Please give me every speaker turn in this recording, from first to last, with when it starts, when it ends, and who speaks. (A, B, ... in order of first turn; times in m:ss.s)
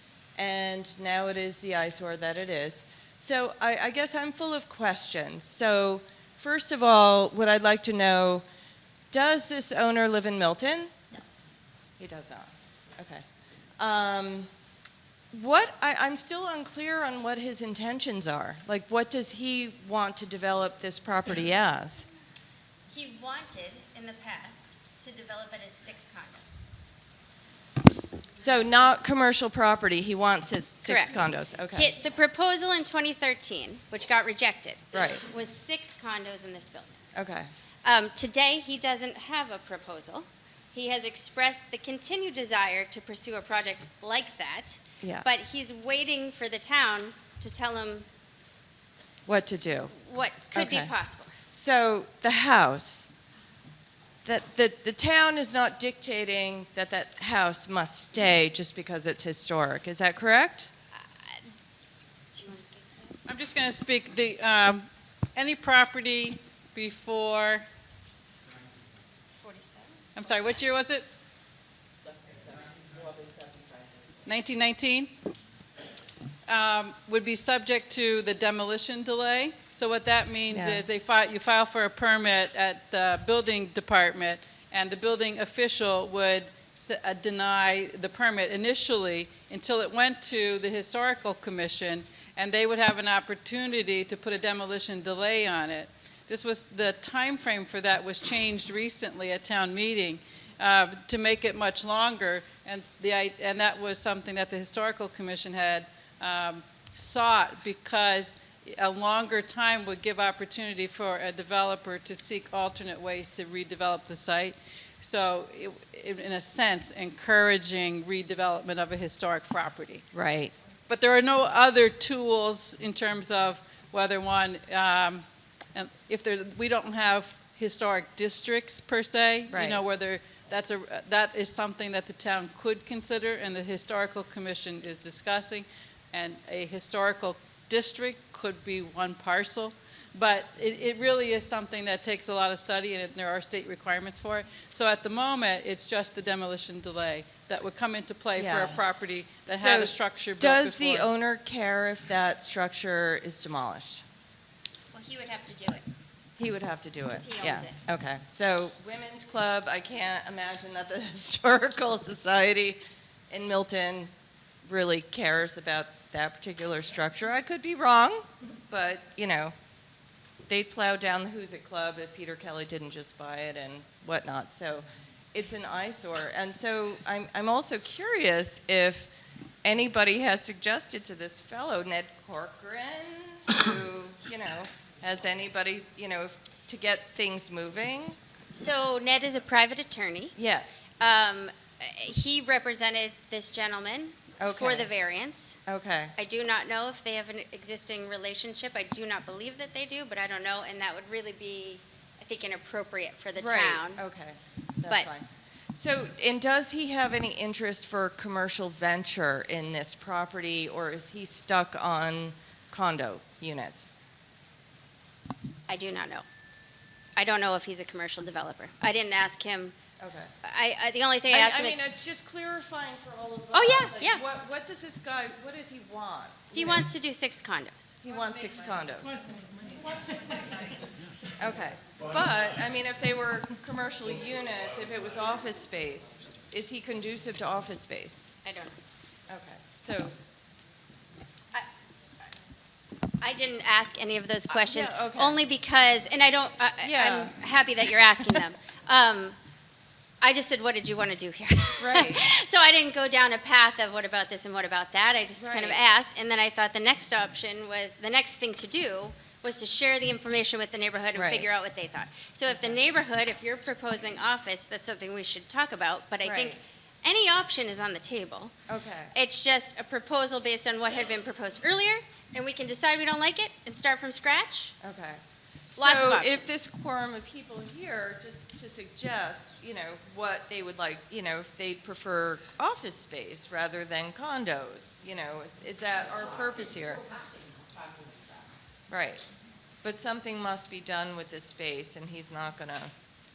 0:00.4-0:08.4 A
0:09.1-0:11.0 A
0:12.0-0:13.3 A
0:13.8-0:14.5 A
0:15.3-0:22.1 A
0:22.9-0:26.6 B
0:28.4-0:31.9 A
0:30.8-0:31.2 B
0:31.7-0:37.0 B
0:34.9-0:35.2 A
0:37.2-0:37.5 A
0:37.8-0:48.1 B
0:45.0-0:45.3 A
0:49.3-0:50.0 A
0:49.9-0:51.4 B
0:50.5-0:50.9 A
0:51.5-0:53.1 A
0:54.2-1:00.7 A
1:00.9-1:01.4 B
1:02.3-1:03.2 B
1:03.3-1:07.7 C
1:09.4-1:10.6 B
1:10.2-1:11.1 C
1:12.4-1:13.7 A
1:14.2-1:15.2 C
1:16.5-2:00.0 C
1:20.5-1:20.9 A
2:00.1-2:00.5 A
2:00.9-2:31.1 C
2:09.5-2:09.8 A
2:28.4-2:28.8 A
2:29.5-2:34.0 A
2:34.9-2:35.8 B
2:36.4-2:44.1 A
2:37.1-2:37.8 B
2:44.6-2:49.5 A
2:50.5-2:59.1 A
2:59.6-3:08.2 A
3:08.5-3:10.4 B
3:10.4-3:10.9 A
3:11.0-3:15.6 B
3:14.4-3:14.9 A
3:15.7-3:16.2 A
3:16.2-3:24.0 B
3:23.4-3:33.9 A
3:35.7-3:36.2 B
3:37.2-3:39.8 B
3:40.0-3:40.3 A
3:40.4-3:41.8 B
3:41.3-3:46.9 A
3:43.5-3:44.2 B
3:46.6-3:48.0 B
3:48.0-3:49.3 A
3:51.4-3:58.3 A
3:58.4-3:58.8 B
3:59.3-4:00.2 A
4:03.2-4:09.4 B
4:04.5-4:05.4 A
4:06.8-4:07.4 A
4:10.2-4:28.5 B
4:11.8-4:12.2 A
4:15.4-4:15.8 A
4:21.1-4:21.5 A
4:22.5-4:22.8 A
4:26.2-4:26.6 A
4:28.7-4:29.1 A
4:29.1-4:34.8 B
4:34.8-4:35.2 A
4:35.7-4:47.1 A
4:35.8-4:36.6 B
4:48.9-4:49.2 A
4:49.8-4:52.9 A